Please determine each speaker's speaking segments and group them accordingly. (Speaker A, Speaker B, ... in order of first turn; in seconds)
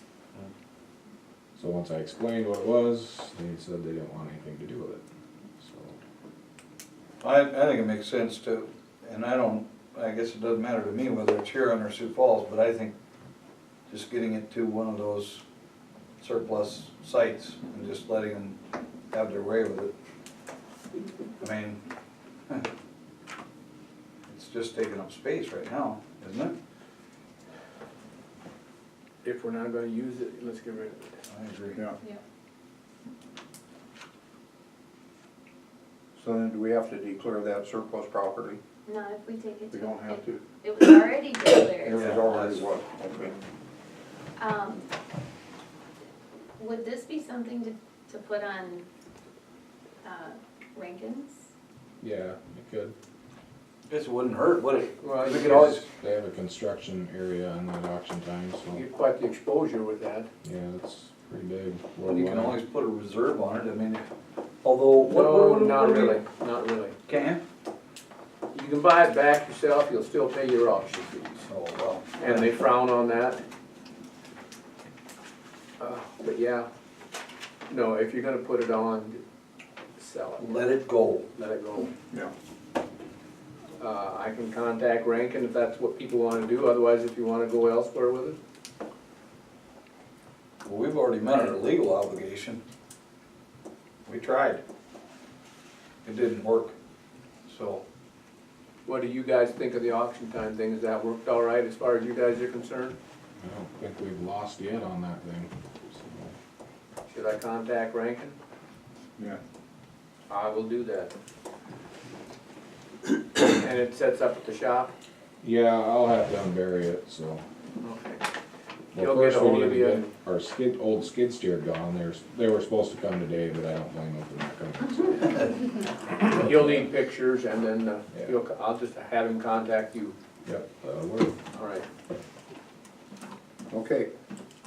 Speaker A: 1.5-5.0, 5.6-6.0, 52.0-52.9, 55.4-58.8, 60.4-62.6, 103.4-106.3, 115.4-117.4, 118.9-125.5, 126.3-126.8, 130.4-131.4
Speaker B: 7.2-12.9, 13.9-15.4, 16.2-18.6, 19.1-19.9, 21.4-21.8, 24.2-26.5, 31.3-31.8, 41.9-42.6, 53.9-55.8, 62.1-64.0, 64.6-66.2, 67.0-67.4, 71.5-72.5, 80.4-81.3, 90.6-92.6, 94.0-94.6, 96.0-96.7, 97.5-97.8
Speaker C: 29.2-31.2, 55.0-55.8, 58.7-60.3, 65.0-66.9, 68.5-71.5, 72.2-73.4, 75.8-76.7, 77.7-79.2, 80.0-80.5, 81.3-81.9, 83.8-88.4, 98.8-103.0, 107.1-108.3, 110.3-111.1, 113.3-114.9, 117.8-118.2, 118.9-120.1, 126.2-130.2, 131.5-131.8
Speaker D: 36.2-38.6, 39.7-40.4, 41.8-43.4, 133.7-134.1
Speaker E: 38.8-42.1, 44.4-44.9, 46.6-48.9, 50.0-51.5